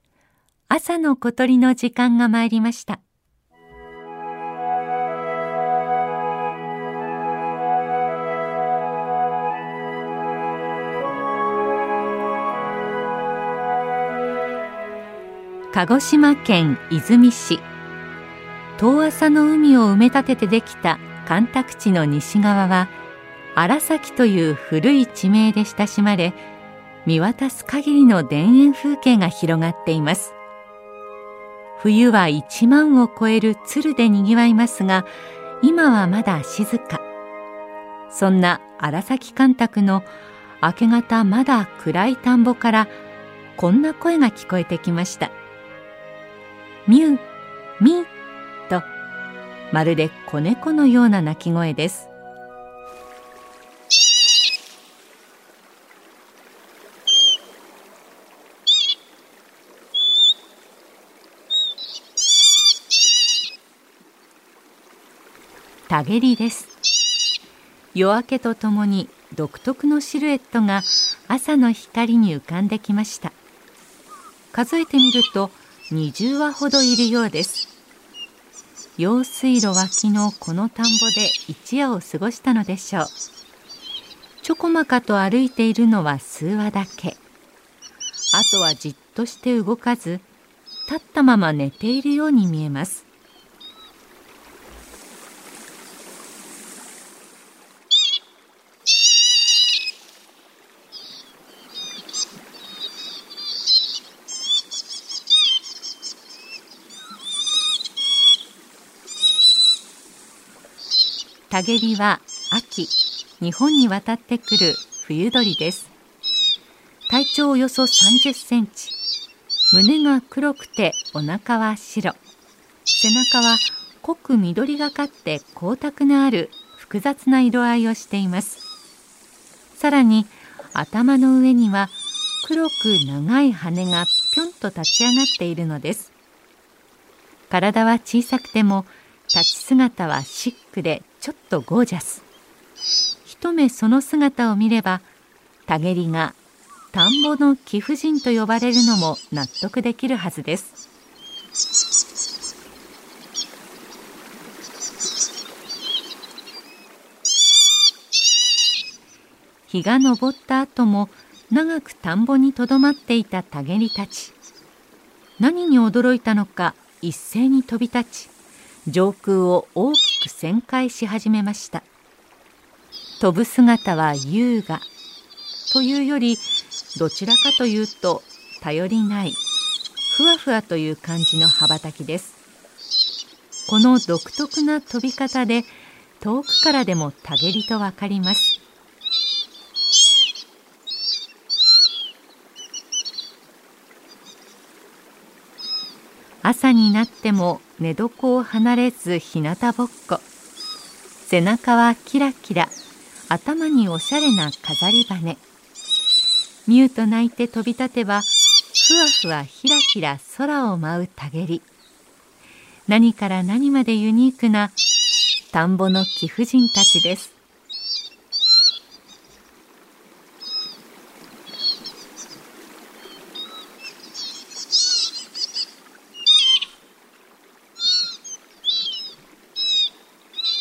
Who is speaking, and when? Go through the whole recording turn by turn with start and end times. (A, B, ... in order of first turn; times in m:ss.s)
0:00.7-0:03.0 A
0:15.7-0:17.7 A
0:18.8-0:22.9 A
0:23.6-0:26.4 A
0:27.0-0:30.4 A
0:31.8-0:35.1 A
0:35.6-0:37.0 A
0:38.1-0:40.1 A
0:40.6-0:42.9 A
0:43.6-0:45.3 A
0:46.9-0:47.2 A
0:47.8-0:48.1 A
0:49.7-0:52.1 A
1:05.9-1:06.7 A
1:07.9-1:13.4 A
1:14.5-1:17.7 A
1:19.0-1:23.1 A
1:24.4-1:27.2 A
1:28.3-1:30.2 A
1:30.9-1:33.1 A
1:51.5-1:55.9 A
1:57.1-1:59.0 A
1:59.7-2:02.2 A
2:02.9-2:08.6 A
2:09.8-2:16.1 A
2:17.5-2:22.2 A
2:23.2-2:25.1 A
2:25.7-2:26.4 A
2:26.9-2:30.8 A
2:39.7-2:44.4 A
2:45.4-2:48.3 A
2:48.9-2:51.9 A
2:53.2-2:54.9 A
2:55.7-2:59.4 A
3:00.1-3:02.4 A
3:03.7-3:08.6 A
3:16.4-3:20.3 A
3:21.2-3:22.7 A
3:23.3-3:25.4 A
3:26.7-3:31.7 A
3:32.9-3:34.8 A
3:35.5-3:37.4 A